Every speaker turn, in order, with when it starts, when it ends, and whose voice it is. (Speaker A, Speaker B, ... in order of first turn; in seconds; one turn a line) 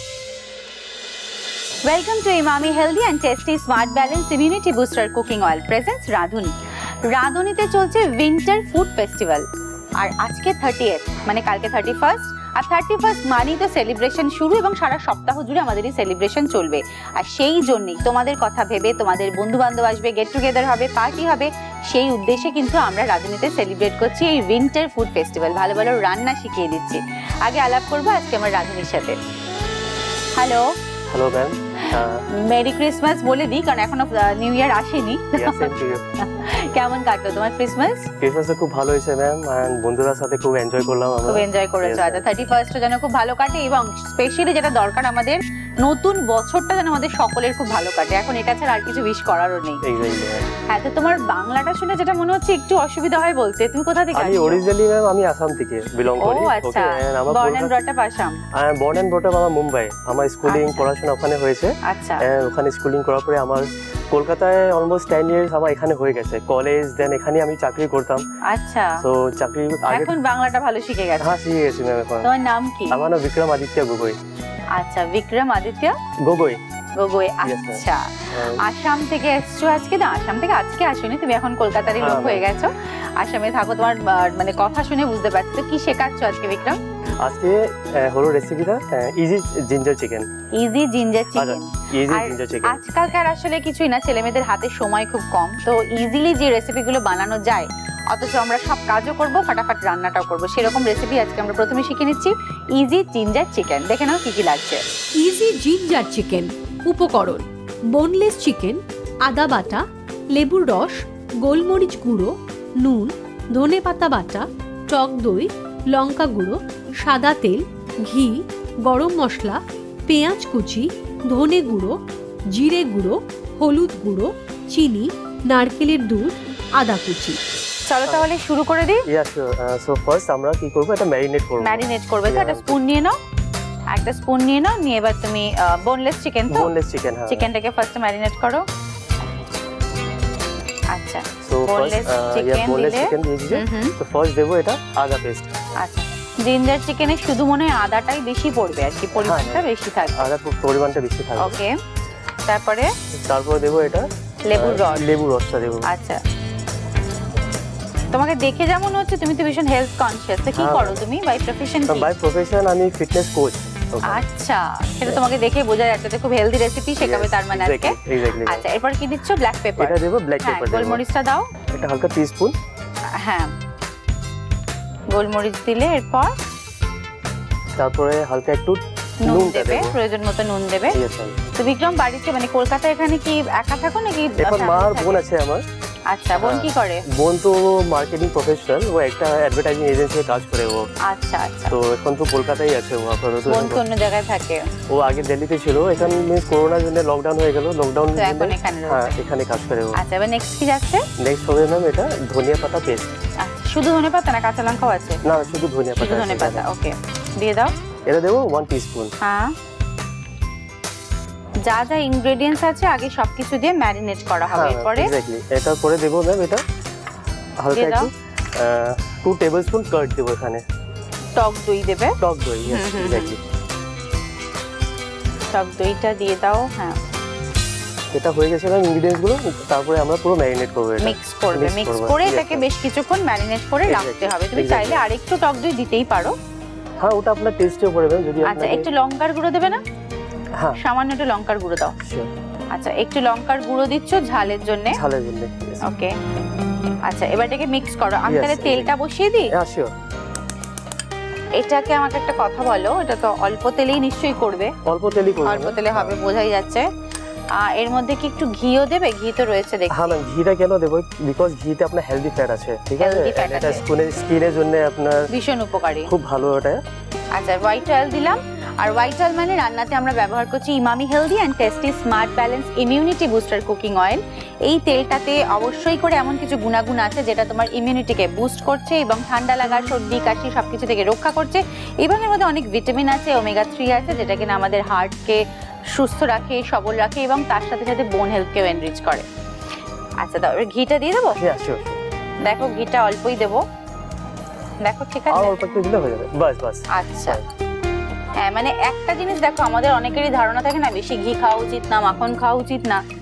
Speaker A: 1.9-6.5
Speaker A: 7.1-9.4
Speaker A: 10.0-29.2
Speaker A: 30.4-30.7
Speaker B: 31.1-32.3
Speaker A: 31.9-38.1
Speaker B: 35.4-36.1
Speaker B: 38.2-42.3
Speaker A: 41.3-49.8
Speaker B: 49.8-50.5
Speaker A: 50.7-54.6
Speaker B: 54.1-57.7
Speaker A: 56.2-58.4
Speaker B: 58.5-68.2
Speaker A: 60.5-60.9
Speaker A: 61.9-62.2
Speaker A: 68.5-69.0
Speaker B: 69.0-70.1
Speaker A: 69.9-71.4
Speaker B: 71.2-72.3
Speaker A: 72.2-73.0
Speaker B: 72.9-74.2
Speaker A: 74.8-76.0
Speaker B: 76.2-76.6
Speaker A: 77.0-78.0
Speaker B: 77.4-78.6
Speaker A: 78.6-86.8
Speaker B: 81.9-82.5
Speaker B: 87.2-90.3
Speaker A: 90.6-104.8
Speaker B: 91.4-92.8
Speaker C: 105.2-122.0
Speaker C: 122.5-127.4
Speaker A: 127.9-129.1
Speaker B: 129.1-132.8
Speaker A: 131.6-133.2
Speaker A: 133.9-136.7
Speaker B: 136.5-137.5
Speaker A: 137.3-138.6
Speaker A: 140.9-143.9
Speaker B: 141.4-145.5
Speaker A: 145.8-150.3
Speaker B: 149.2-151.6
Speaker A: 151.4-151.8
Speaker A: 152.5-152.9
Speaker B: 153.3-155.9
Speaker A: 154.4-155.1
Speaker A: 155.9-156.2
Speaker A: 158.1-162.1
Speaker B: 160.5-161.0
Speaker B: 161.9-164.2
Speaker A: 164.1-171.5
Speaker B: 167.0-168.7
Speaker B: 169.8-171.0
Speaker B: 171.7-172.6
Speaker A: 173.2-173.5
Speaker A: 175.1-176.3
Speaker B: 177.8-179.9
Speaker A: 179.2-181.0
Speaker B: 180.9-181.4
Speaker A: 181.6-185.2
Speaker B: 184.4-185.6
Speaker A: 186.1-187.1
Speaker B: 186.4-190.9
Speaker A: 191.1-191.8
Speaker B: 191.7-193.8
Speaker A: 193.5-194.7
Speaker B: 194.9-200.0
Speaker A: 198.2-199.2
Speaker A: 200.0-201.1
Speaker B: 201.2-203.1
Speaker A: 203.4-205.2
Speaker B: 205.2-206.7
Speaker A: 206.0-207.7
Speaker B: 208.1-209.1
Speaker A: 209.2-209.5
Speaker A: 211.7-215.1
Speaker B: 214.5-216.6
Speaker B: 217.6-220.6
Speaker A: 217.7-218.1
Speaker A: 221.4-222.2
Speaker B: 222.2-223.4
Speaker A: 222.7-223.3
Speaker A: 225.5-227.0
Speaker B: 228.1-232.7
Speaker A: 231.0-236.3
Speaker B: 233.9-235.0
Speaker B: 237.0-238.9
Speaker A: 238.4-239.8
Speaker A: 240.8-241.9
Speaker B: 242.0-242.3
Speaker A: 242.7-245.0
Speaker B: 244.9-245.8
Speaker A: 245.8-246.1
Speaker A: 247.1-249.5
Speaker B: 248.3-248.9
Speaker B: 249.5-249.9
Speaker A: 251.6-254.8
Speaker B: 254.9-256.2
Speaker A: 255.4-256.9
Speaker A: 257.6-260.1
Speaker B: 259.9-265.3
Speaker A: 263.0-263.8
Speaker A: 265.3-266.1
Speaker B: 266.1-266.8
Speaker A: 267.4-285.4
Speaker A: 285.9-289.3
Speaker A: 290.2-291.4
Speaker B: 291.3-292.0
Speaker A: 292.4-293.6
Speaker A: 294.8-295.6
Speaker B: 295.3-297.4
Speaker A: 296.9-297.4
Speaker A: 298.4-303.0